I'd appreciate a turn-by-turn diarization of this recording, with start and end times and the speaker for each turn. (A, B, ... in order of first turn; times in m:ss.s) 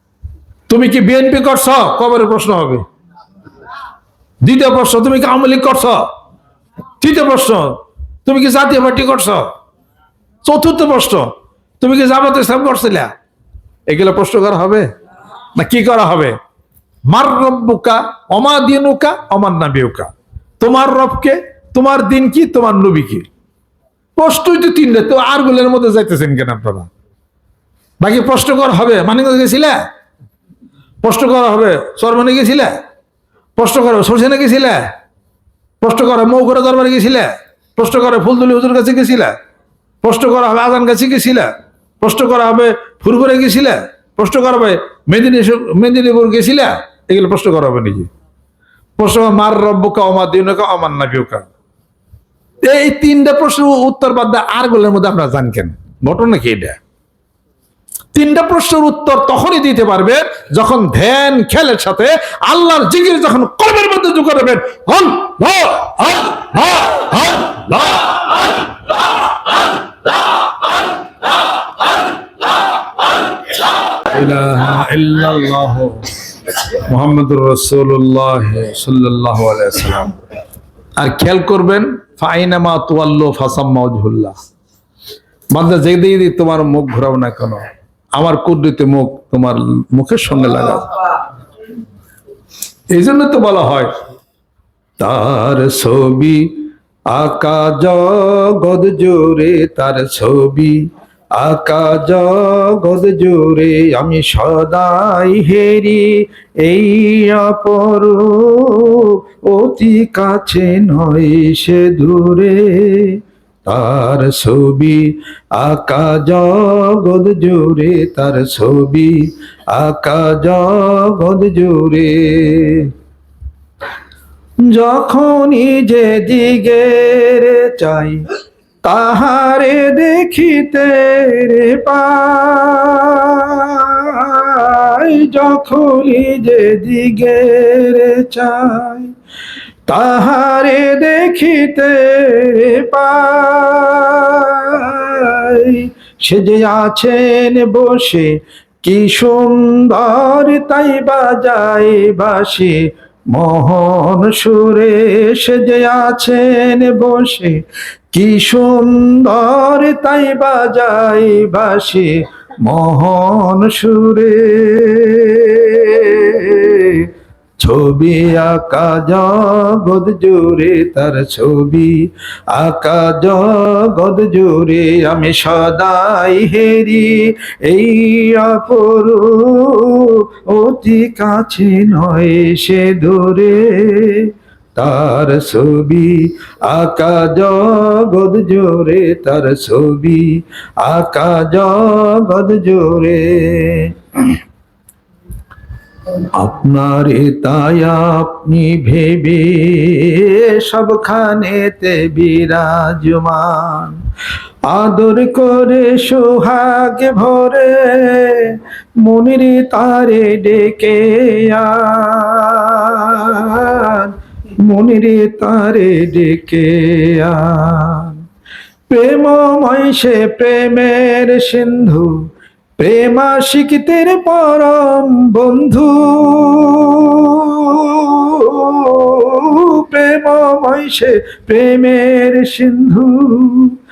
0:00.7-0:02.8 A
0:04.4-0:06.0 A
0:07.0-0:09.5 A
0:10.4-0:11.3 A
0:11.8-0:13.1 A
0:13.9-0:14.9 A
0:15.5-0:16.4 A
0:17.1-0:23.3 A
0:24.2-0:26.9 A
0:28.0-0:29.8 A
0:31.0-0:32.8 A
0:33.6-0:34.9 A
0:35.8-0:39.4 A
0:40.0-0:48.1 A
0:49.0-0:51.5 A
0:52.6-0:56.8 A
0:58.1-1:08.3 A
1:13.9-1:20.2 A
1:21.0-1:24.3 A
1:25.5-1:31.0 A
1:32.9-1:33.9 A
1:35.0-1:36.5 A
1:37.1-1:40.8 A
1:41.4-1:59.2 A
1:59.7-2:02.9 A
2:04.7-2:08.2 A
2:08.8-2:19.1 A
2:19.9-2:32.8 A
2:33.3-2:37.6 A
2:38.1-2:47.1 A
2:47.6-2:52.0 A
2:52.5-3:13.9 A
3:16.2-3:24.0 A
3:24.7-3:34.1 A
3:34.6-3:38.2 A
3:38.9-3:42.1 A
3:42.8-3:53.8 A